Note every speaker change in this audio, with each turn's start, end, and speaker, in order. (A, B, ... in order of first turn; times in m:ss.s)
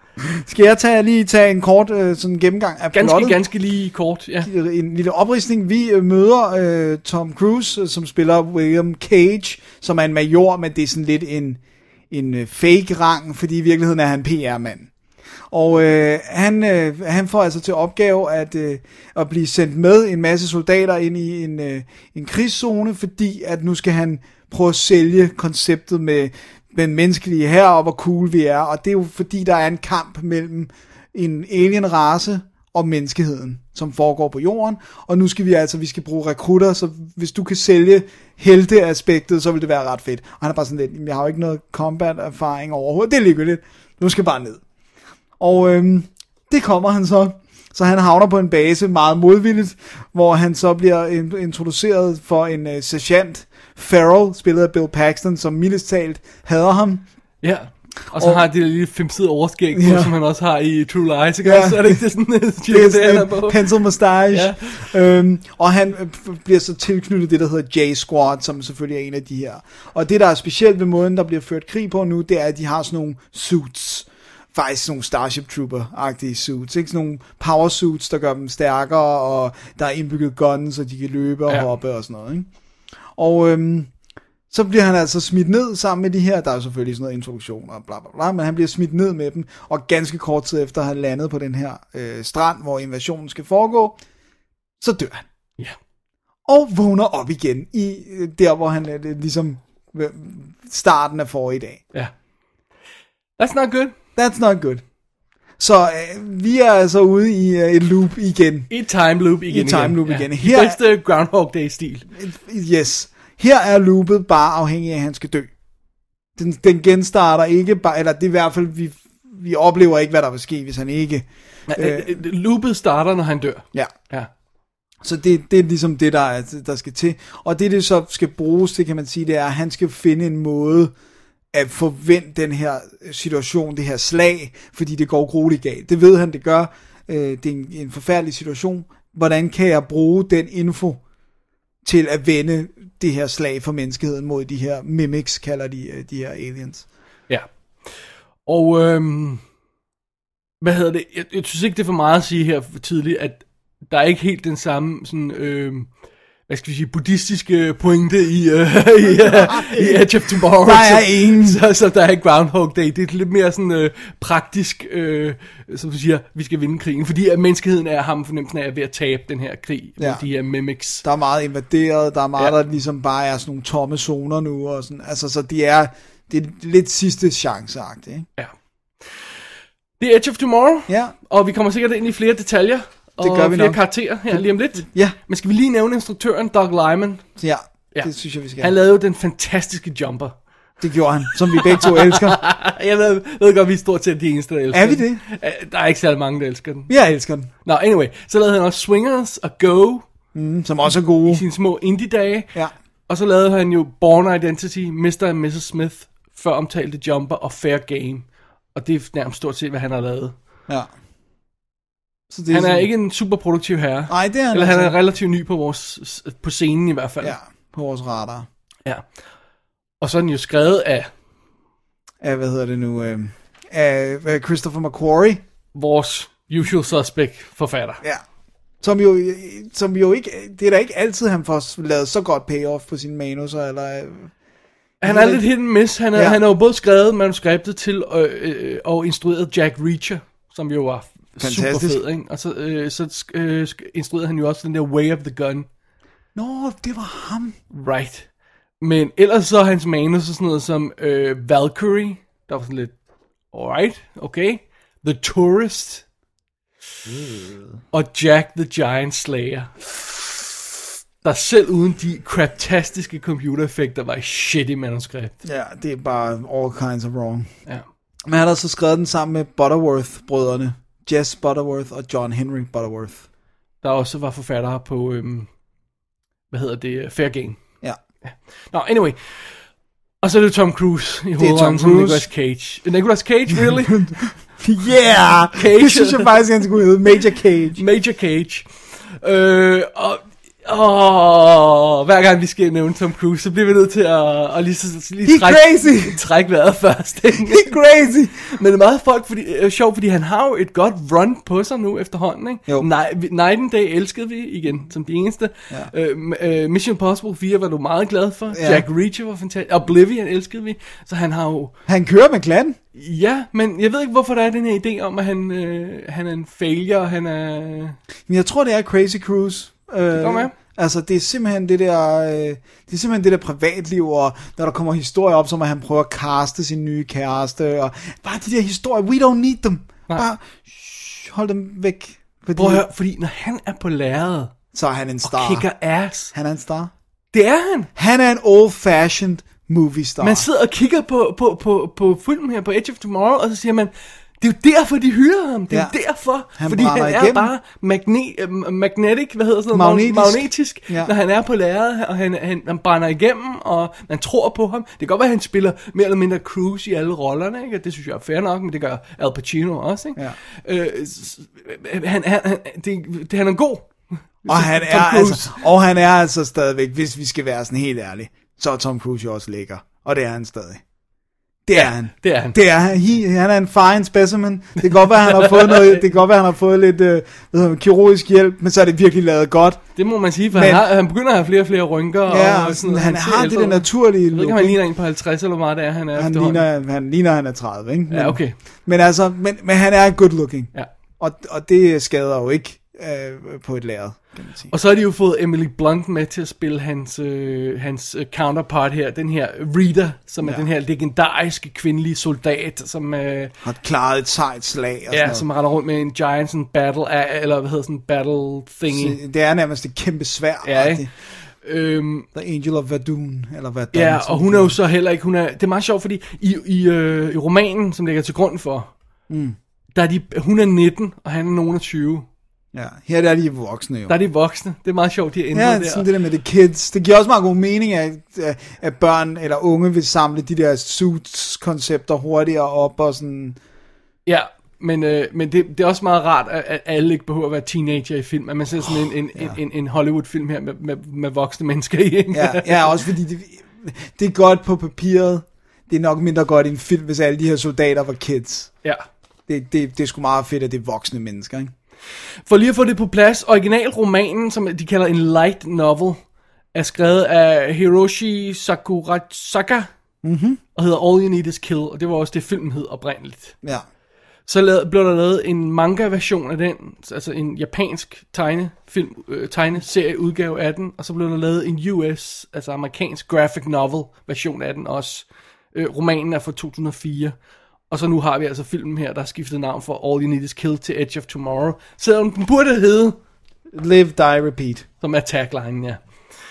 0:00.2-0:03.4 A
0:02.9-0:04.5 B
0:04.4-0:14.9 A
0:15.5-0:44.6 A
0:45.4-0:57.1 A
0:57.4-1:03.7 B
0:58.1-0:58.4 A
0:59.7-1:00.1 A
1:01.4-1:02.0 A
1:02.7-1:22.5 A
1:04.3-1:04.9 B
1:23.2-1:23.9 A
1:24.5-1:34.0 A
1:34.8-1:35.2 A
1:36.4-1:41.8 A
1:43.4-1:43.9 B
1:44.2-1:44.8 A
1:45.6-1:48.7 A
1:48.7-1:52.0 B
1:49.5-1:50.8 A
1:52.2-1:55.5 A
1:56.4-2:02.2 A
2:01.7-2:04.3 B
2:05.0-2:10.9 A
2:11.5-2:21.0 A
2:21.8-2:26.8 A
2:28.4-2:29.4 B
2:30.6-2:35.9 B
2:36.5-2:51.0 B
2:39.0-2:41.6 A
2:50.0-2:50.2 A
2:51.0-2:58.3 A
3:00.0-3:07.2 B
3:00.9-3:01.1 A
3:03.2-3:05.2 A
3:07.4-3:08.7 A
3:07.9-3:10.3 B
3:10.8-3:12.4 A
3:11.5-3:16.9 B
3:14.7-3:15.2 A
3:16.9-3:17.5 A
3:17.6-3:20.0 B
3:20.3-3:21.4 A
3:21.3-3:22.5 B
3:23.1-3:30.3 B
3:32.3-3:32.9 A
3:32.5-3:37.3 B
3:34.1-3:35.0 A
3:37.2-3:38.5 A
3:40.0-3:41.1 B
3:42.2-3:45.4 A
3:45.7-3:48.0 B
3:48.8-3:54.3 A
3:55.0-3:55.5 A
3:55.0-4:05.7 B
3:56.1-3:56.4 A
4:01.4-4:02.0 A
4:06.3-4:07.6 A
4:07.7-4:08.2 B
4:08.8-4:12.9 B
4:13.5-4:16.0 B
4:17.2-4:17.5 A
4:17.9-4:20.5 B
4:21.2-4:25.3 B
4:25.4-4:27.5 A
4:28.3-4:33.2 A
4:33.8-4:35.5 B
4:36.5-4:37.6 B
4:38.2-4:39.4 B
4:40.2-4:44.0 B
4:41.4-4:42.3 A
4:43.5-4:47.8 A
4:45.5-4:46.3 B
4:47.8-4:48.7 B
4:49.2-4:57.7 B
4:55.2-4:56.2 A
4:57.5-4:58.3 A
4:58.3-5:11.7 B
5:08.5-5:08.8 A
5:11.9-5:12.8 A
5:12.9-5:18.0 B
5:18.3-5:32.8 A
5:20.1-5:20.5 B
5:32.6-5:34.5 B
5:34.7-5:35.7 A
5:35.2-5:36.3 B
5:36.3-5:36.9 A
5:37.3-5:37.9 B
5:38.0-5:40.4 A
5:40.2-6:03.9 B
5:45.7-5:46.0 A
5:46.5-5:47.5 A
5:49.7-5:51.1 A
6:04.4-6:05.6 B
6:04.5-6:10.8 A
6:11.6-6:19.8 A
6:11.7-6:12.6 B
6:14.8-6:16.0 B
6:20.0-6:26.6 B
6:20.5-6:20.8 A
6:22.3-6:24.8 A
6:26.1-6:34.7 A
6:28.1-6:28.6 B
6:34.7-6:43.5 B
6:43.6-6:45.4 A
6:45.1-6:49.2 B
6:48.9-6:51.1 A
6:50.6-6:52.3 B
6:52.3-6:54.8 A
6:53.9-6:58.9 B
6:59.3-6:59.6 A
6:59.9-7:02.3 B
7:02.7-7:04.1 A
7:04.1-7:06.1 B
7:05.5-7:13.6 A
7:14.2-7:23.0 B
7:22.3-7:28.7 A
7:29.5-7:31.7 A
7:32.5-7:36.2 B
7:36.7-7:39.9 B
7:40.2-7:40.6 A
7:40.8-7:43.5 B
7:44.5-7:57.3 B
7:57.9-8:03.2 B
8:03.7-8:04.8 A
8:05.0-8:06.0 B